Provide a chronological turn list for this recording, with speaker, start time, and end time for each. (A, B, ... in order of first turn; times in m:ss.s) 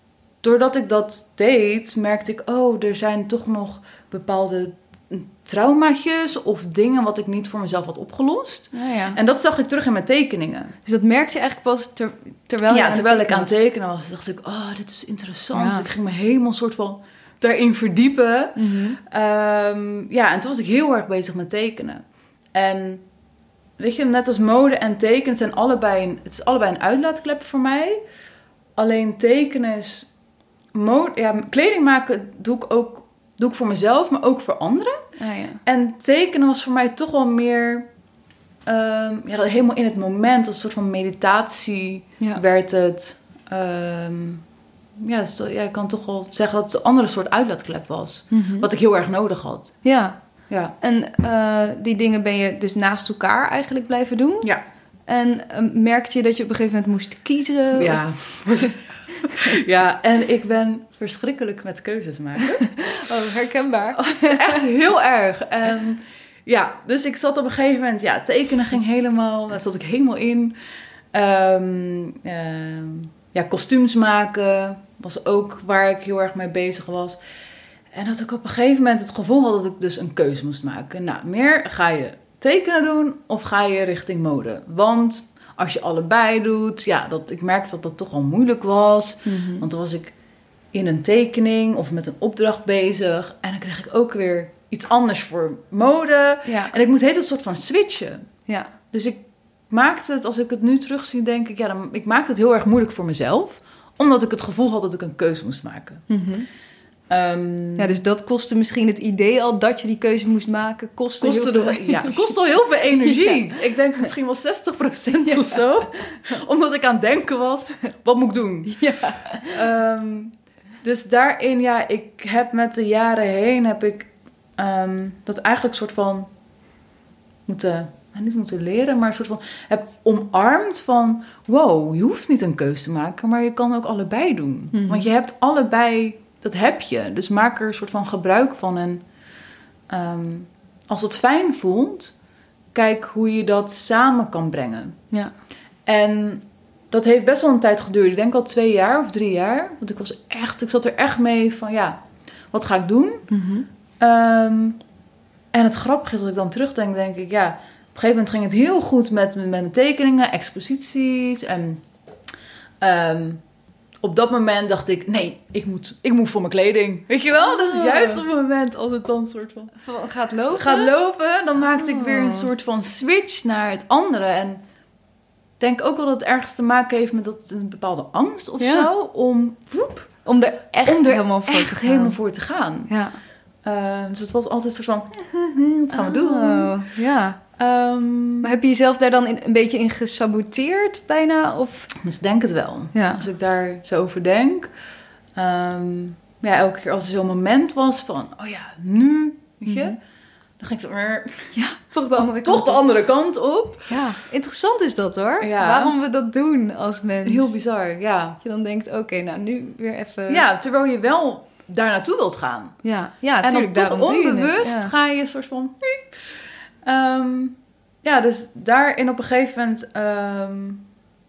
0:00.4-0:10.7 A
0:08.7-0:09.2 B
0:10.8-0:13.6 B
0:12.7-0:23.0 A
0:15.5-0:15.9 B
0:18.6-0:19.0 B
0:23.8-0:28.0 A
0:28.8-0:30.1 A
0:30.7-0:35.0 A
0:35.2-0:35.6 B
0:35.6-0:37.9 A
0:38.6-0:44.4 A
0:45.0-0:49.8 A
0:48.3-0:48.7 B
0:49.8-0:50.2 B
0:50.5-0:50.7 A
0:50.7-0:54.5 B
0:55.1-0:58.7 B
0:57.7-1:03.0 A
1:02.8-1:04.6 B
1:04.0-1:10.5 A
1:11.1-1:17.2 A
1:17.9-1:30.1 A
1:29.2-1:29.6 B
1:30.7-1:38.3 A
1:36.4-1:36.7 B
1:38.5-1:38.7 B
1:38.9-1:46.1 A
1:46.1-1:46.5 B
1:47.1-1:48.0 A
1:47.8-1:52.4 B
1:51.2-2:06.3 A
1:52.9-1:53.4 B
1:55.2-1:55.6 B
1:58.7-1:59.5 B
2:07.5-2:19.0 A
2:14.7-2:15.0 B
2:19.9-2:22.1 A
2:22.7-2:25.0 A
2:25.9-2:33.3 A
2:33.3-2:33.7 B
2:34.0-2:34.8 A
2:35.5-2:41.8 A
2:42.8-2:43.4 A
2:44.0-2:49.8 A
2:47.4-2:48.2 B
2:49.8-2:50.9 B
2:50.5-2:54.6 A
2:51.6-2:52.5 B
2:55.6-3:00.2 A
2:58.6-2:58.9 B
3:00.2-3:02.2 B
3:00.8-3:02.9 A
3:02.9-3:03.2 B
3:03.6-3:06.7 A
3:05.9-3:07.4 B
3:07.6-3:08.5 A
3:08.4-3:11.9 B
3:12.0-3:14.7 A
3:12.9-3:13.2 B
3:15.4-3:20.0 A
3:19.6-3:19.9 B
3:20.6-3:21.6 A
3:21.5-3:22.8 B
3:22.3-3:23.9 A
3:23.9-3:27.5 B
3:25.4-3:25.9 A
3:27.2-3:28.4 A
3:28.4-3:30.4 B
3:30.3-3:32.8 A
3:32.8-3:34.9 B
3:33.4-3:40.9 A